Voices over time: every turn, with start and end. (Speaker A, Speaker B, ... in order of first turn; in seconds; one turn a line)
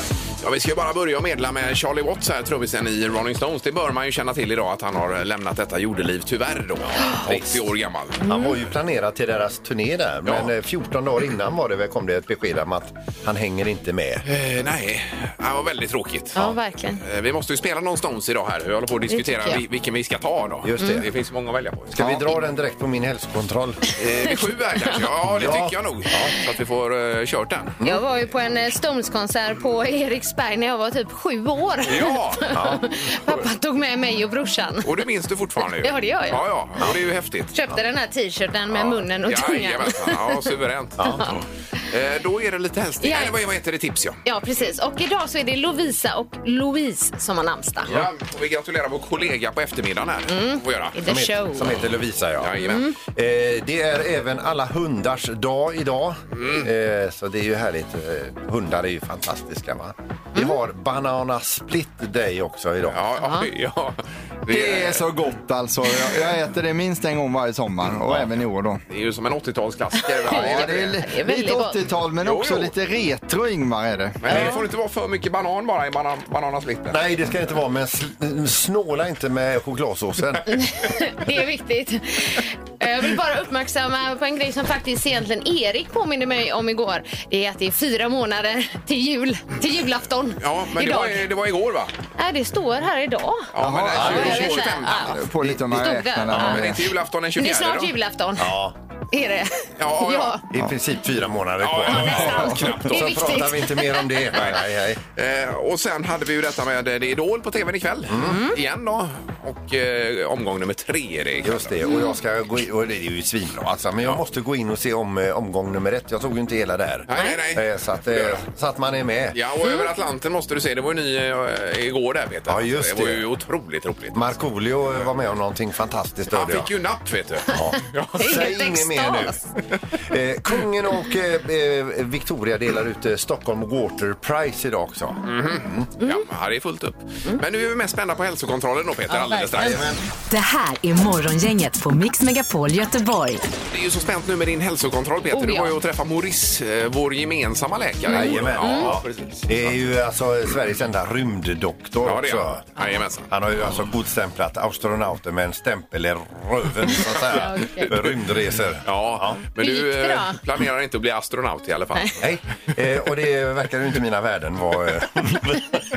Speaker A: 0.4-8.2
Speaker B: 6.9-7.7
Speaker B: 8.2-14.2
Speaker C: 8.2-8.5
Speaker A: 10.2-10.5
Speaker A: 14.2-22.4
Speaker C: 16.4-17.0
Speaker C: 19.1-19.6
Speaker B: 20.6-21.1
Speaker B: 21.9-23.8
Speaker A: 24.0-27.8
Speaker B: 25.3-26.3
Speaker C: 27.8-34.9
Speaker A: 31.8-32.7
Speaker B: 32.5-32.8
Speaker A: 34.8-37.5
Speaker C: 35.8-36.4
Speaker C: 37.5-40.5
Speaker A: 38.7-44.2
Speaker B: 41.0-41.2
Speaker C: 41.1-41.4
Speaker C: 43.0-43.4
Speaker C: 44.2-47.9
Speaker A: 47.8-51.0
Speaker C: 50.3-51.8
Speaker B: 51.0-63.0
Speaker A: 52.4-52.9
Speaker C: 52.6-52.9
Speaker A: 56.4-56.6
Speaker A: 62.9-65.1
Speaker C: 63.2-63.5
Speaker D: 64.5-68.8
Speaker A: 68.9-71.0
Speaker C: 70.1-71.8
Speaker D: 70.3-74.4
Speaker A: 72.2-72.7
Speaker A: 74.2-77.0
Speaker B: 74.3-74.6
Speaker B: 76.9-80.5
Speaker C: 80.5-91.3
Speaker A: 90.4-91.9
Speaker C: 92.2-96.7
Speaker A: 93.5-95.2
Speaker D: 93.6-96.8
Speaker B: 93.9-94.6
Speaker B: 96.3-96.6
Speaker A: 96.3-97.9
Speaker C: 97.4-98.5
Speaker B: 98.4-98.7
Speaker C: 99.1-100.4
Speaker A: 99.8-100.4
Speaker B: 100.5-105.0
Speaker A: 101.6-103.5
Speaker C: 101.9-104.4
Speaker A: 104.3-104.6
Speaker A: 105.2-111.8
Speaker B: 108.1-108.4
Speaker C: 108.2-108.5
Speaker B: 111.4-119.4
Speaker C: 111.8-112.2
Speaker A: 117.1-118.4
Speaker A: 119.3-124.3
Speaker B: 122.5-123.3
Speaker B: 124.1-126.7
Speaker A: 126.3-128.5
Speaker B: 127.5-129.3
Speaker C: 128.1-129.4
Speaker B: 130.0-135.9
Speaker A: 135.2-139.9
Speaker C: 139.1-139.8
Speaker B: 139.5-140.0
Speaker E: 140.3-143.5
Speaker A: 143.7-149.7
Speaker C: 145.3-145.7
Speaker C: 148.1-148.9
Speaker B: 148.1-152.6
Speaker A: 152.0-153.3
Speaker B: 153.3-159.4
Speaker C: 157.3-157.9
Speaker A: 158.8-162.3
Speaker C: 159.6-160.4
Speaker B: 162.2-165.8